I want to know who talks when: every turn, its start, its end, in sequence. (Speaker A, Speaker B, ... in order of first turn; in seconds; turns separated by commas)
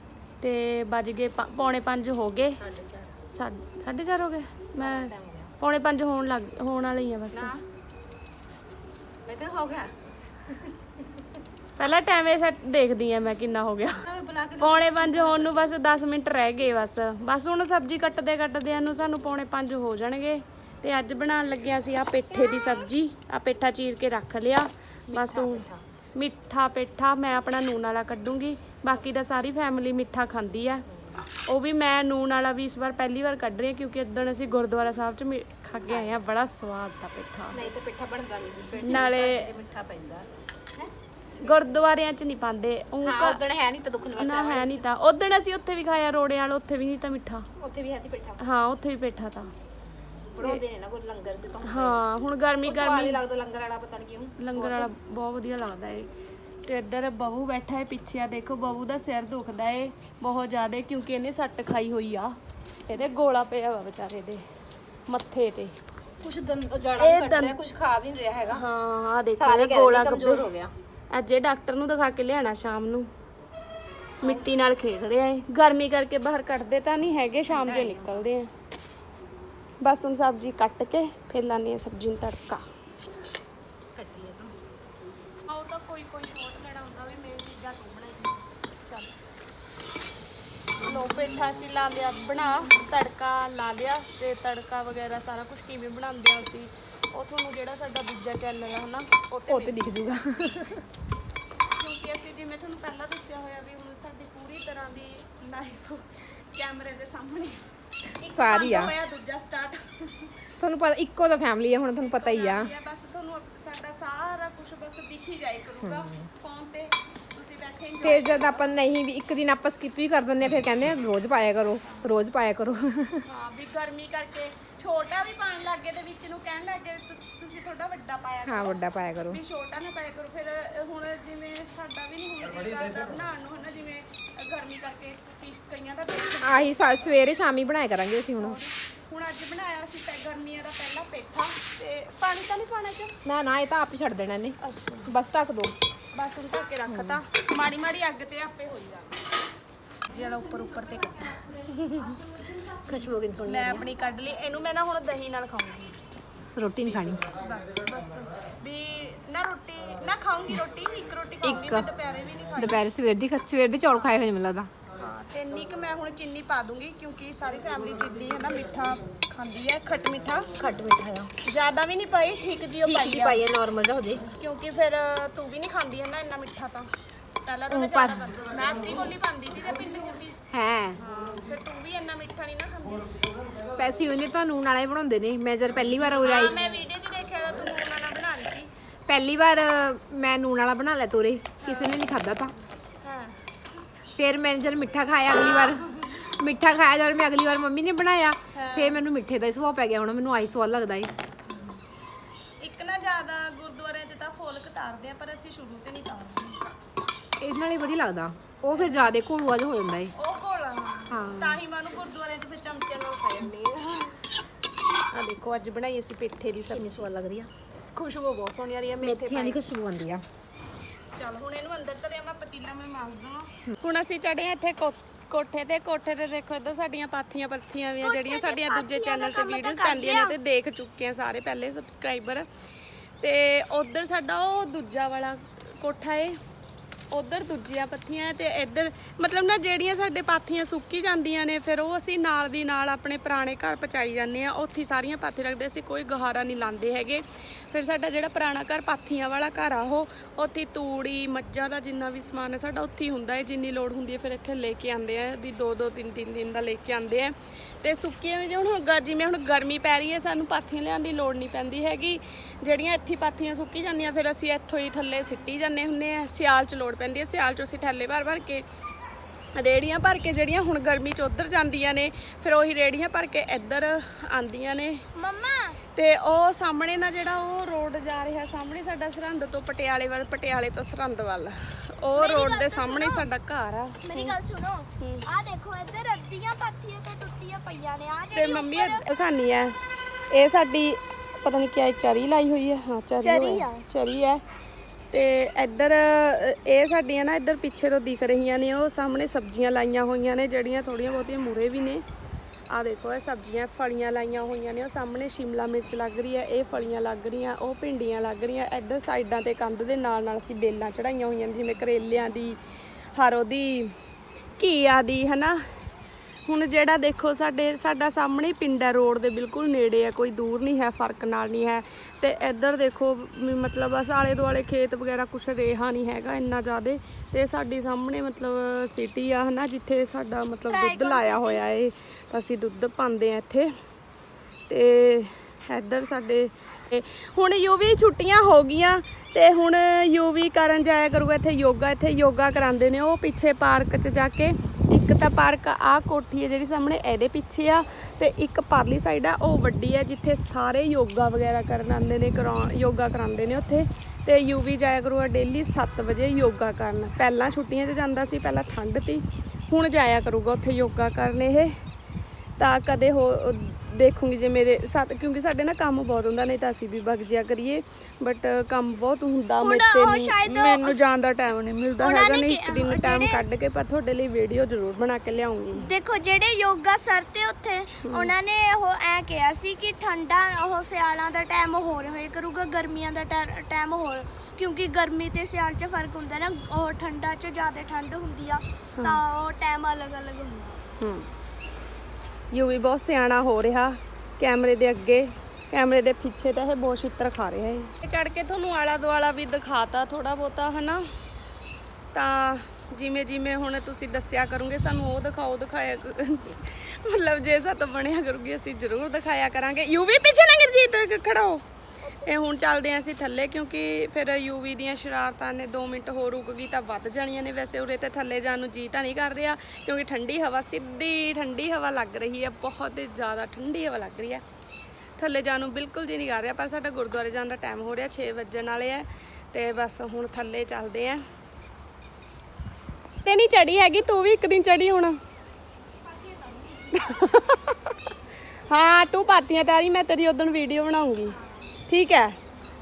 Speaker A: 0.4-2.5, Speaker B: 2.6-3.1, Speaker A: 3.3-7.5, Speaker B: 4.8-5.5, Speaker B: 7.3-7.6, Speaker B: 9.2-10.1, Speaker A: 11.8-14.0, Speaker B: 14.1-15.4, Speaker A: 14.6-30.8, Speaker B: 22.3-22.9, Speaker B: 25.1-25.8, Speaker B: 30.9-31.2, Speaker A: 31.4-37.6, Speaker B: 35.8-36.2, Speaker B: 37.5-40.9, Speaker A: 38.8-39.5, Speaker A: 41.4-43.4, Speaker B: 43.0-44.8, Speaker A: 44.2-47.5, Speaker B: 47.6-48.4, Speaker A: 48.4-49.5, Speaker B: 50.3-52.0, Speaker A: 51.6-53.2, Speaker B: 52.6-54.9, Speaker A: 54.4-56.1, Speaker A: 56.6-62.3, Speaker A: 62.9-64.4, Speaker A: 65.1-65.8, Speaker B: 66.2-68.6, Speaker A: 67.0-67.6, Speaker A: 68.5-70.5, Speaker B: 69.3-70.7, Speaker A: 71.1-73.1, Speaker A: 74.2-78.5, Speaker B: 77.5-78.2, Speaker A: 79.8-82.6, Speaker B: 83.9-84.5, Speaker A: 85.5-89.1, Speaker A: 90.8-99.8, Speaker B: 99.5-100.9, Speaker A: 101.8-107.6, Speaker A: 108.2-110.3, Speaker B: 108.2-108.9, Speaker B: 110.6-112.7, Speaker A: 112.0-118.7, Speaker B: 115.8-116.3, Speaker B: 118.0-123.2, Speaker A: 123.2-137.1, Speaker B: 128.5-129.4, Speaker B: 136.4-138.6, Speaker A: 138.4-143.2, Speaker B: 143.2-144.6, Speaker A: 144.6-145.1, Speaker B: 145.1-145.8, Speaker A: 146.1-149.2, Speaker B: 146.9-147.2, Speaker A: 150.1-152.2, Speaker B: 152.8-153.8, Speaker A: 153.4-156.0, Speaker B: 156.6-157.2, Speaker A: 156.8-162.8, Speaker B: 161.4-161.8, Speaker B: 162.6-164.7, Speaker A: 164.9-170.5, Speaker B: 170.6-171.3, Speaker A: 171.4-173.4, Speaker B: 172.8-174.2, Speaker A: 174.4-176.9, Speaker A: 177.4-180.4, Speaker B: 177.7-178.4, Speaker B: 180.5-181.0, Speaker A: 181.0-183.2, Speaker B: 183.8-186.6, Speaker A: 186.0-188.7, Speaker B: 189.1-192.5, Speaker A: 191.6-192.0, Speaker A: 193.0-193.3, Speaker B: 194.2-201.1, Speaker A: 195.4-196.2, Speaker A: 198.5-199.0, Speaker A: 202.6-206.7, Speaker B: 207.4-210.1, Speaker A: 208.7-209.1, Speaker A: 210.2-214.2, Speaker B: 211.1-211.6, Speaker A: 215.1-217.1, Speaker B: 216.7-217.5, Speaker A: 217.9-219.6, Speaker B: 219.0-220.2, Speaker A: 221.2-232.5, Speaker C: 228.0-230.3, Speaker A: 233.2-236.4, Speaker A: 237.1-268.6, Speaker A: 269.6-275.0, Speaker C: 275.2-275.8, Speaker A: 275.9-284.4, Speaker C: 282.1-283.3, Speaker C: 284.0-289.0, Speaker A: 285.0-285.3, Speaker A: 288.3-289.8, Speaker A: 290.3-294.4, Speaker C: 293.2-293.8, Speaker A: 295.1-302.0, Speaker A: 302.7-312.6, Speaker A: 313.1-313.9, Speaker A: 314.6-315.6, Speaker A: 316.5-333.7, Speaker C: 330.7-331.6, Speaker A: 334.7-361.7, Speaker A: 362.6-375.9, Speaker C: 369.6-371.0, Speaker C: 372.0-373.4, Speaker C: 375.8-390.8, Speaker A: 378.0-378.3, Speaker A: 391.0-391.3, Speaker A: 392.5-401.1, Speaker A: 402.1-411.6, Speaker A: 412.2-424.4, Speaker A: 425.2-431.2, Speaker A: 433.2-435.2, Speaker B: 436.0-437.1, Speaker A: 436.9-437.9, Speaker A: 438.7-441.4, Speaker A: 441.9-442.4